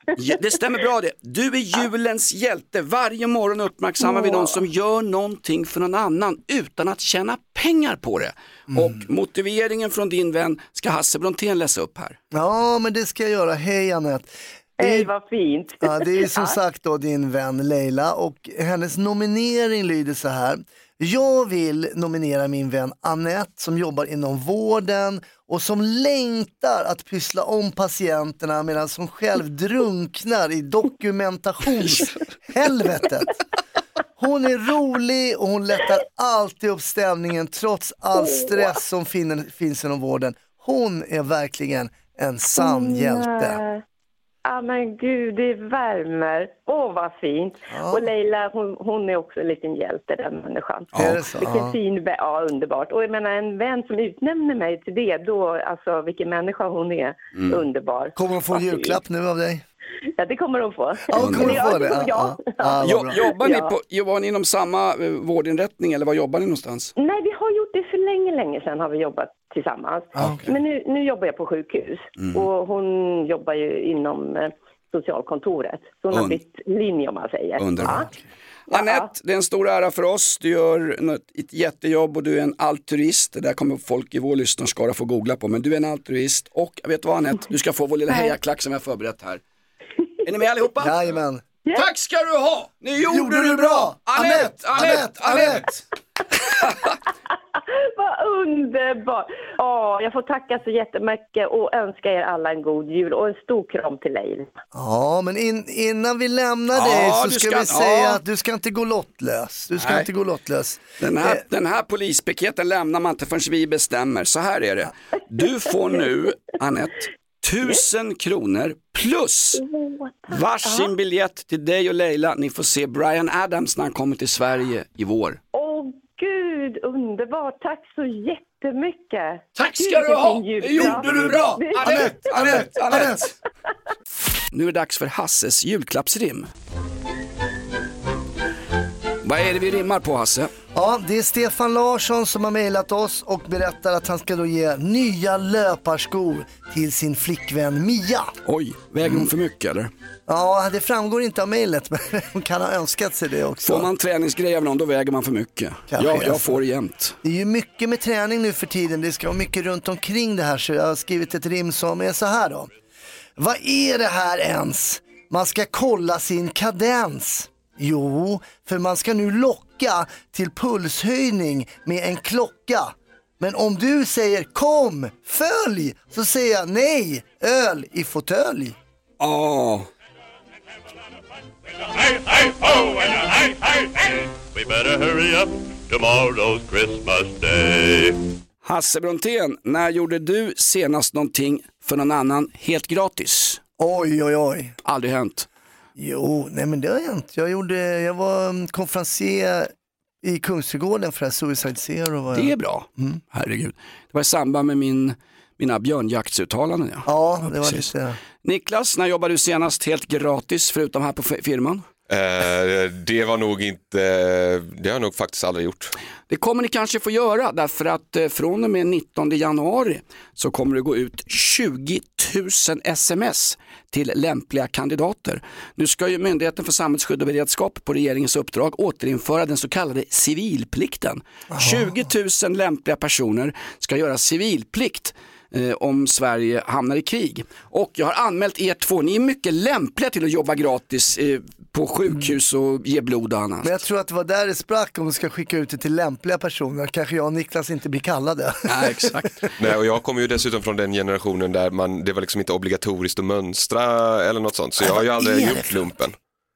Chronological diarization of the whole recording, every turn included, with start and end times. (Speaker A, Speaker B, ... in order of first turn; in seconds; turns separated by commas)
Speaker A: 0.2-12.2, Speaker B: 4.0-4.6, Speaker C: 8.7-9.0, Speaker C: 12.3-15.1, Speaker B: 14.8-16.6, Speaker C: 15.8-33.3, Speaker C: 34.2-43.6, Speaker B: 38.2-38.7, Speaker B: 42.6-43.8, Speaker B: 44.4-59.0, Speaker C: 47.7-48.0, Speaker A: 50.9-51.2, Speaker C: 51.0-51.7, Speaker A: 57.3-57.6, Speaker C: 58.1-59.6, Speaker B: 60.2-63.7, Speaker C: 61.1-63.2, Speaker A: 61.2-61.7, Speaker A: 62.8-66.9, Speaker B: 67.0-78.1, Speaker C: 70.2-70.5, Speaker A: 70.2-70.5, Speaker A: 72.2-72.5, Speaker A: 76.1-76.4, Speaker A: 77.6-78.1, Speaker C: 77.8-78.1, Speaker B: 78.7-79.1, Speaker A: 78.7-89.4, Speaker A: 90.2-91.0, Speaker C: 90.8-91.4, Speaker A: 91.7-95.8, Speaker C: 93.0-95.7, Speaker A: 96.6-96.9, Speaker B: 97.7-104.5, Speaker C: 104.7-111.4, Speaker A: 106.7-108.2, Speaker A: 109.8-110.1, Speaker A: 111.0-119.6, Speaker B: 119.5-120.9, Speaker A: 120.3-125.4, Speaker B: 125.5-132.6, Speaker A: 129.6-133.3, Speaker C: 131.8-133.3, Speaker A: 134.5-136.5, Speaker A: 139.2-140.5, Speaker C: 140.7-148.3, Speaker A: 148.4-149.9, Speaker C: 150.3-153.9, Speaker A: 153.6-157.2, Speaker C: 155.9-156.6, Speaker C: 157.2-162.7, Speaker C: 163.4-178.8, Speaker A: 179.2-179.9, Speaker D: 181.9-188.2, Speaker A: 188.6-193.6, Speaker C: 193.8-194.8, Speaker A: 194.8-195.5, Speaker C: 196.0-203.2, Speaker A: 202.3-207.9, Speaker C: 207.1-208.2, Speaker A: 208.4-211.8, Speaker E: 212.1-215.9, Speaker A: 216.3-243.7, Speaker C: 231.5-232.1, Speaker C: 243.6-249.4, Speaker A: 248.7-249.5, Speaker E: 249.6-256.2, Speaker C: 255.2-255.9